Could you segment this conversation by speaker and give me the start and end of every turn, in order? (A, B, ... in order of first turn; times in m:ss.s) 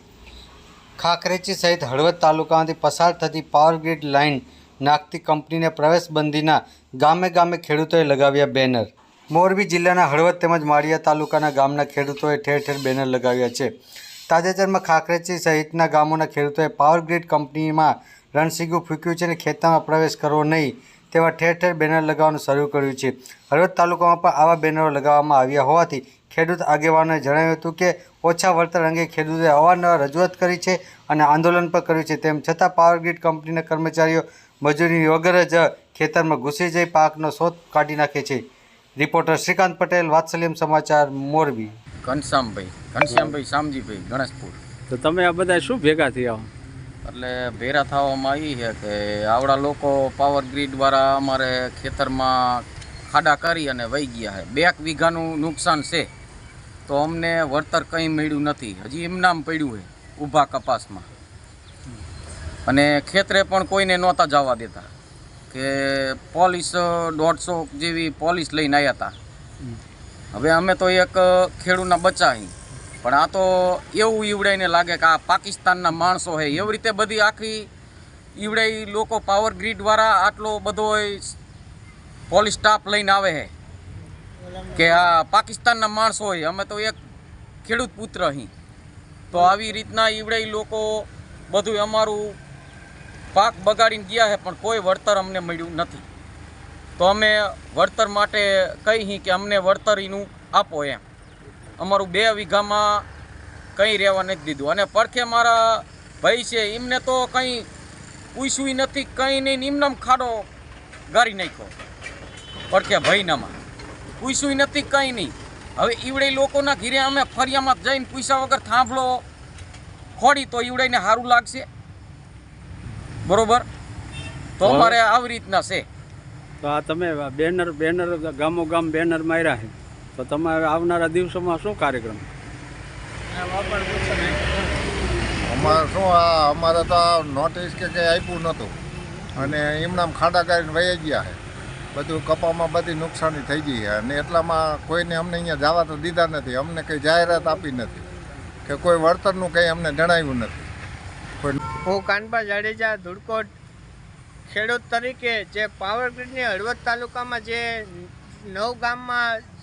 0:01.0-0:13.7 A
0:14.3-0:38.4 A
0:39.0-0:41.8 A
0:42.0-0:44.6 B
0:43.1-0:43.3 C
0:44.9-0:46.5 C
0:47.0-0:56.1 B
0:56.9-1:01.1 B
1:02.7-1:04.9 B
1:05.5-1:09.1 B
1:10.3-1:17.7 B
1:18.4-1:21.4 B
1:22.3-1:23.5 B
1:24.7-1:27.0 B
1:27.6-1:28.5 B
1:29.3-1:32.4 B
1:33.3-1:36.0 B
1:37.0-1:41.0 B
1:41.8-1:43.1 B
1:43.8-1:47.7 B
1:48.3-1:50.5 B
1:51.1-1:51.8 B
1:52.7-1:53.6 B
1:54.2-1:59.2 B
2:00.2-2:01.7 B
2:03.2-2:03.7 B
2:04.6-2:05.8 B
2:04.6-2:05.0 C
2:06.6-2:12.3 C
2:15.4-2:18.8 D
2:19.3-2:21.4 D
2:21.9-2:28.1 D
2:28.7-2:30.7 D
2:31.9-2:33.5 E
2:34.5-2:39.4 E